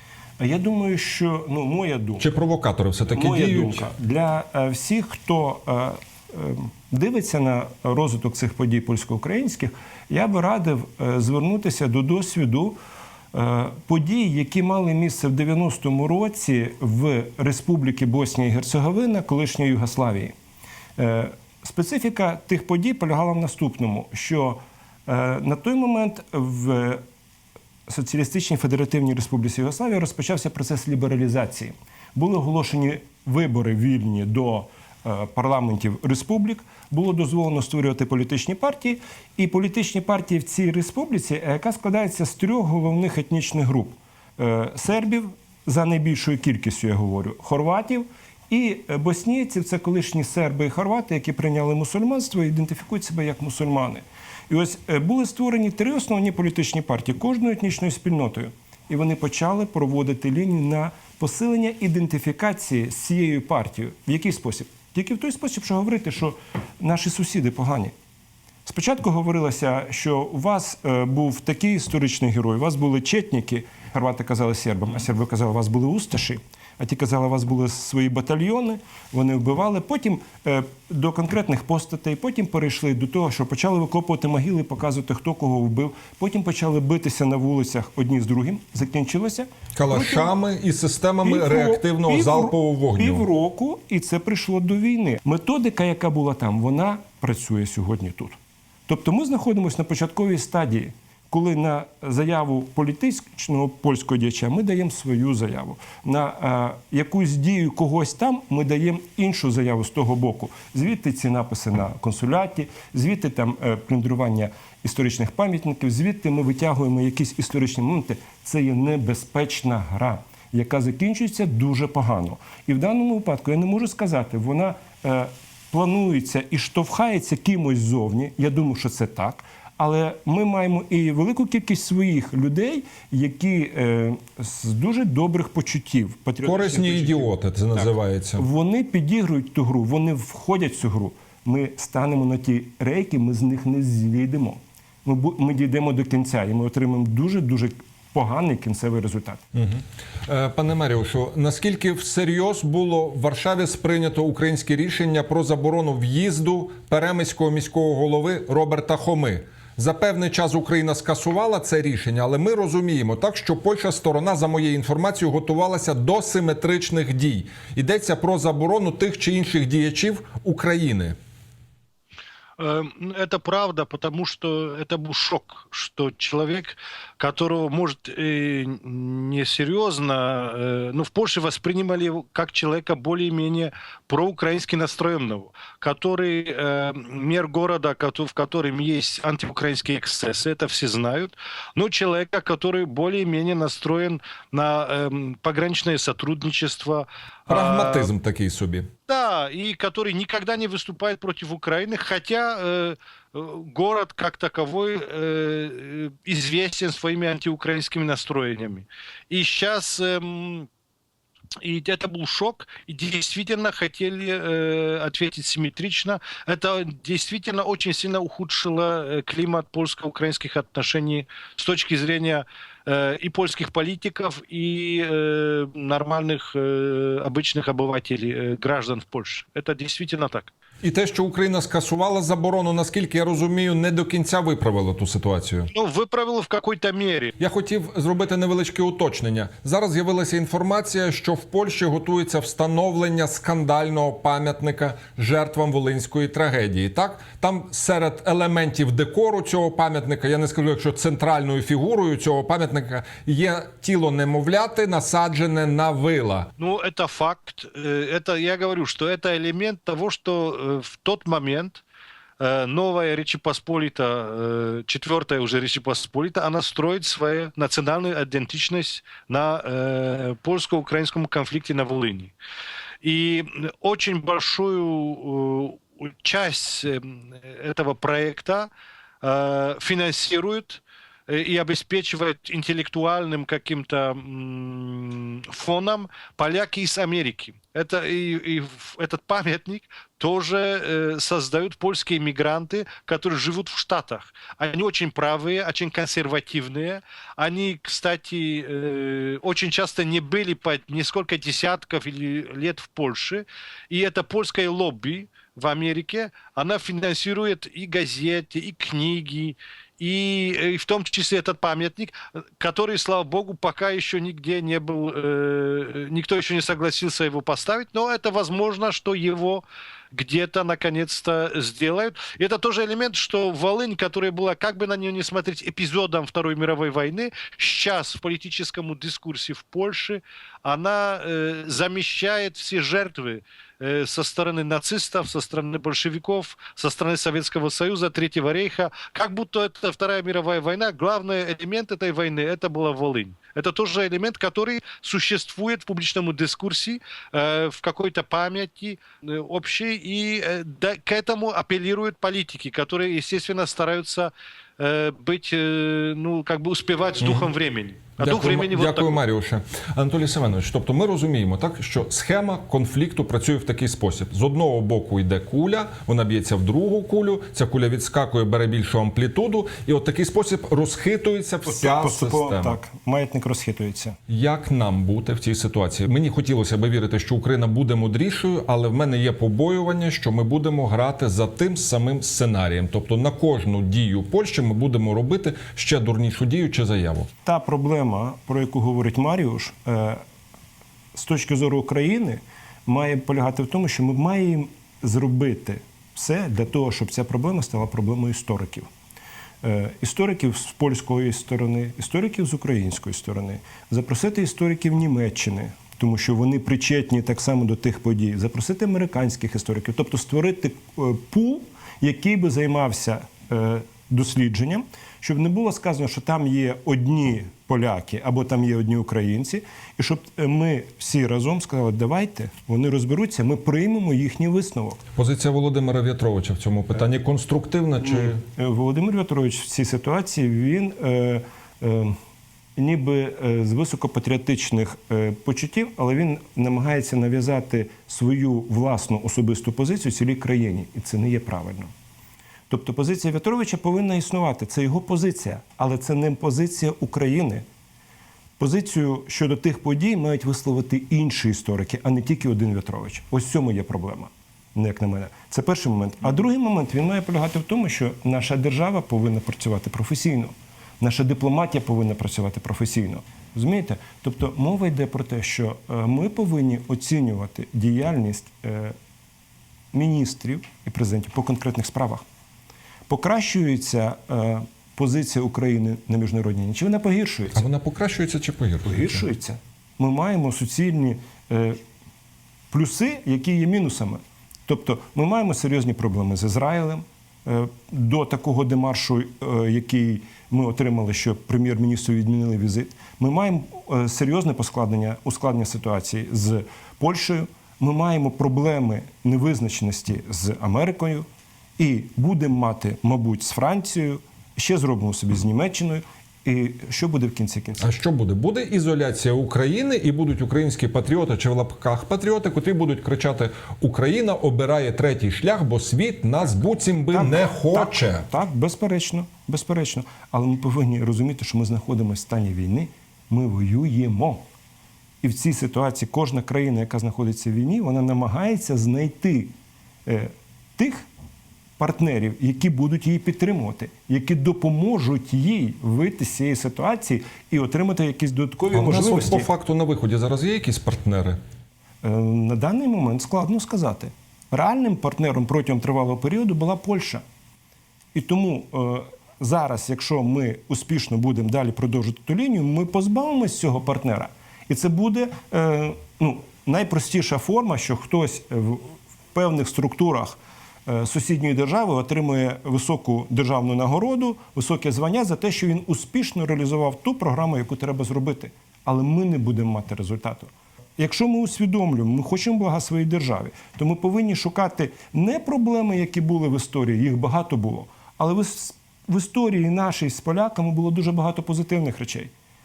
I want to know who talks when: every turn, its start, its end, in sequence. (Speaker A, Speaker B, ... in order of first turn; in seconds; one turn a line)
Speaker A: 0.4-2.3
Speaker B: 2.2-3.9
Speaker A: 3.1-12.8
Speaker A: 13.3-20.3
Speaker A: 21.0-27.0
Speaker A: 27.9-67.9
Speaker A: 68.7-90.3
Speaker B: 89.8-93.3
Speaker A: 91.2-149.4
Speaker B: 136.4-138.5
Speaker B: 149.5-171.2
Speaker C: 172.6-198.1
Speaker B: 197.5-198.9
Speaker C: 199.1-210.7
Speaker C: 211.6-230.5
Speaker B: 230.8-235.7
Speaker C: 235.7-237.3
Speaker B: 237.4-256.5
Speaker C: 256.6-261.8
Speaker C: 262.4-272.4
Speaker C: 273.0-278.7
Speaker C: 279.2-359.2
Speaker B: 357.2-357.5
Speaker B: 358.2-372.8
Speaker A: 371.6-374.2
Speaker B: 374.3-387.3
Speaker A: 387.4-390.2
Speaker A: 391.1-398.9
Speaker A: 399.6-425.0
Speaker B: 425.1-428.4
Speaker A: 428.1-432.1
Speaker A: 432.8-441.9
Speaker A: 442.7-447.7
Speaker A: 448.6-468.9
Speaker A: 469.9-472.2
Speaker A: 473.1-477.6
Speaker B: 477.5-479.2
Speaker A: 478.8-481.8
Speaker A: 482.7-501.3
Speaker A: 501.8-507.9
Speaker B: 507.8-518.3
Speaker A: 517.1-524.4
Speaker A: 525.2-529.5
Speaker A: 530.1-531.1
Speaker A: 531.8-539.5
Speaker B: 538.7-541.4
Speaker A: 542.0-547.2
Speaker A: 548.1-582.3